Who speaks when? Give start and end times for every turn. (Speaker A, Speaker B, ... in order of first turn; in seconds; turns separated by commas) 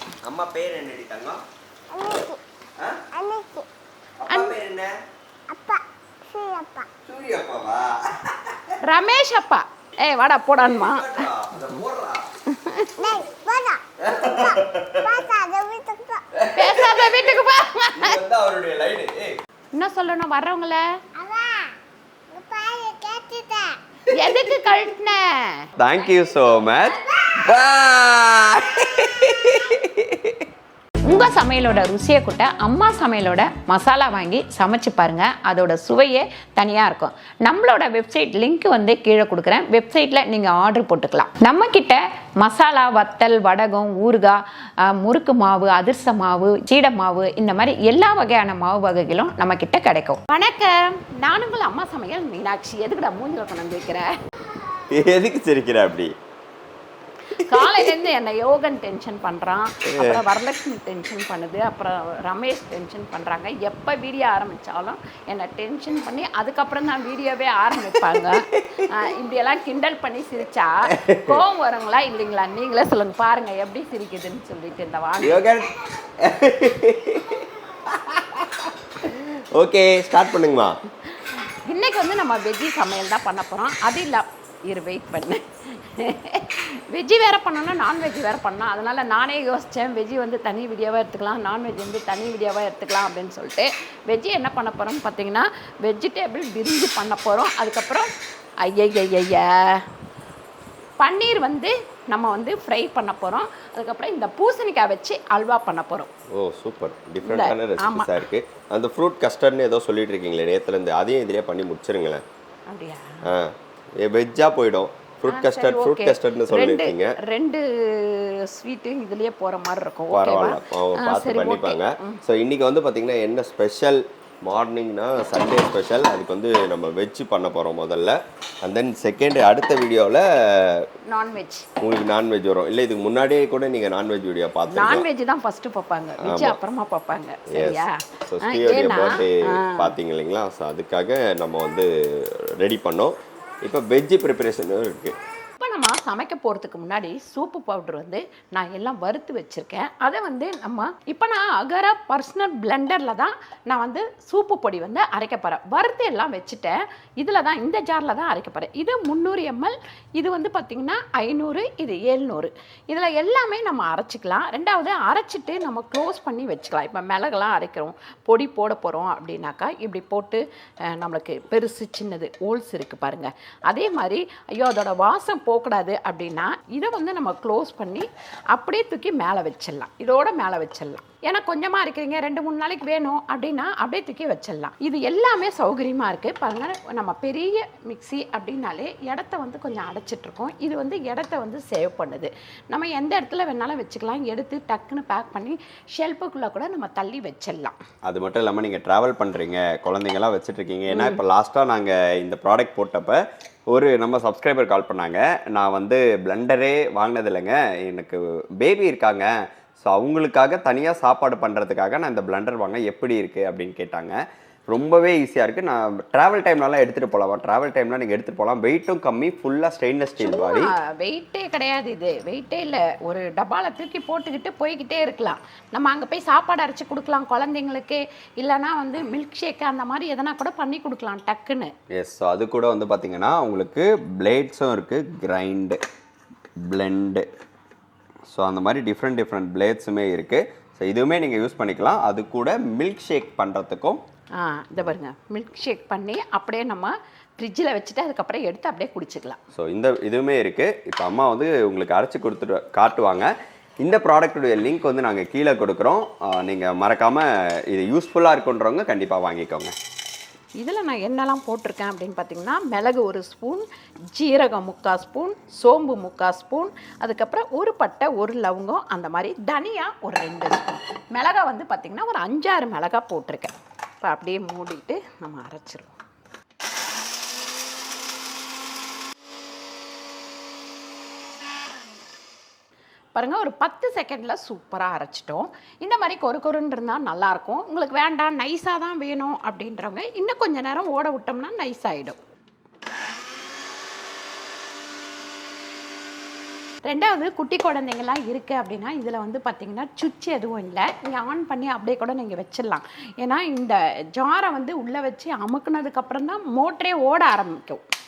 Speaker A: 0.2-1.4, Speaker B: 1.9-2.4, Speaker A: 2.8-3.0, Speaker B: 3.1-3.7, Speaker A: 4.2-4.9, Speaker C: 4.3-4.5, Speaker B: 5.5-6.9, Speaker A: 7.0-8.8, Speaker C: 8.8-11.3, Speaker A: 10.7-12.2, Speaker C: 12.5-13.2, Speaker B: 13.0-13.8, Speaker A: 14.0-15.3, Speaker B: 15.1-16.2, Speaker A: 16.4-17.4, Speaker C: 16.6-18.2, Speaker A: 17.9-19.4, Speaker C: 19.8-20.8, Speaker B: 21.2-21.8, Speaker B: 22.3-23.8, Speaker C: 24.1-25.7, Speaker A: 24.2-24.4, Speaker A: 25.8-30.5, Speaker C: 31.1-54.1, Speaker A: 54.8-56.1, Speaker C: 57.3-75.4, Speaker A: 57.4-57.9, Speaker A: 59.9-60.2, Speaker A: 68.1-68.9, Speaker A: 70.9-71.4, Speaker A: 75.2-80.8, Speaker C: 81.1-98.1, Speaker C: 98.6-99.9, Speaker C: 101.0-106.1, Speaker A: 106.3-112.2, Speaker C: 107.2-108.1, Speaker C: 112.7-113.3, Speaker A: 113.3-117.2, Speaker C: 115.3-122.2, Speaker A: 120.1-130.9, Speaker C: 131.1-131.7, Speaker A: 131.8-135.1, Speaker C: 134.7-139.9, Speaker A: 136.2-136.6, Speaker A: 137.5-145.2, Speaker C: 145.6-197.8, Speaker A: 198.1-214.2, Speaker C: 200.9-201.2, Speaker A: 214.7-220.7, Speaker C: 220.2-231.7, Speaker A: 231.9-235.8, Speaker A: 236.6-237.3, Speaker A: 238.3-244.0, Speaker C: 244.4-249.4, Speaker A: 249.6-253.3, Speaker A: 253.8-259.7, Speaker C: 260.6-275.9, Speaker C: 283.1-292.2, Speaker C: 296.8-307.8